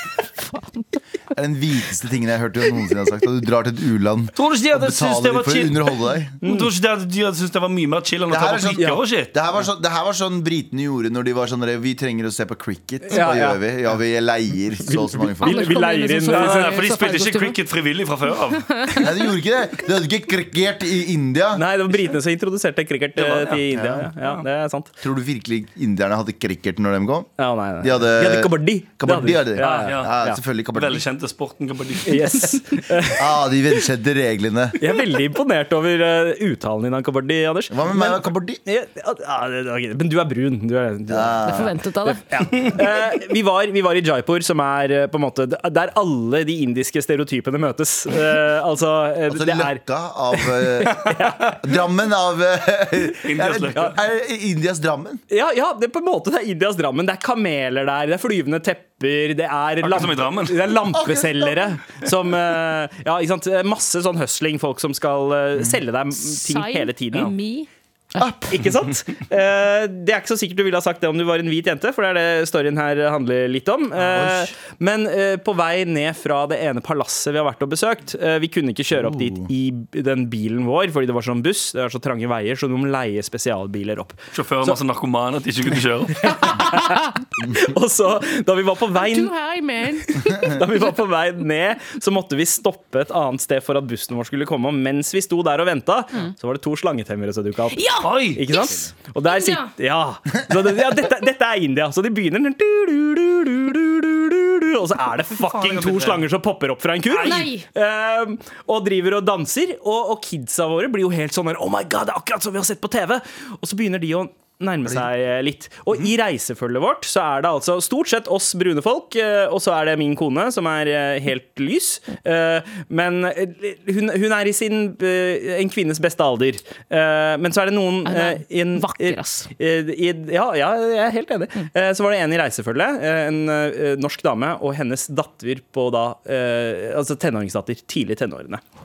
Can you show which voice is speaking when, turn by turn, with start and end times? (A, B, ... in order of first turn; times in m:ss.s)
0:00.4-0:00.8 A
0:01.3-0:06.4 B
0:04.3-0:09.3 C
0:06.4-0:06.7 D
0:08.3-0:15.7 B
0:13.1-0:13.6 D
0:14.8-0:16.7 D
0:15.4-0:17.6 A
0:16.3-0:18.9 C
0:18.5-0:19.1 A
0:19.0-0:21.6 B
0:21.5-0:24.9 D
0:23.2-0:23.6 C
0:23.7-0:24.1 B
0:24.2-0:24.4 C
0:25.0-0:31.0 B
0:27.4-0:30.4 D
0:29.6-0:30.2 C
0:30.7-0:32.6 C
0:32.0-0:33.2 D
0:33.2-0:34.8 B
0:34.8-0:41.5 D
0:37.7-0:38.6 B
0:41.1-0:41.8 B
0:41.4-0:42.7 A
0:42.1-0:49.8 D
0:49.3-0:55.2 B
0:50.3-0:51.6 D
0:53.2-0:53.9 C
0:55.3-1:07.3 D
0:59.8-1:00.7 C
1:00.9-1:01.7 B
1:06.3-1:08.5 A
1:08.5-1:24.7 D
1:14.0-1:14.5 B
1:18.9-1:19.5 B
1:24.3-1:26.3 C
1:26.2-1:29.3 D
1:26.5-1:27.1 A
1:29.0-1:31.0 A
1:30.2-2:18.6 D
1:37.7-1:39.7 A
1:38.0-1:38.4 C
1:45.3-1:46.2 C
1:47.1-1:47.7 A
2:08.0-2:09.5 A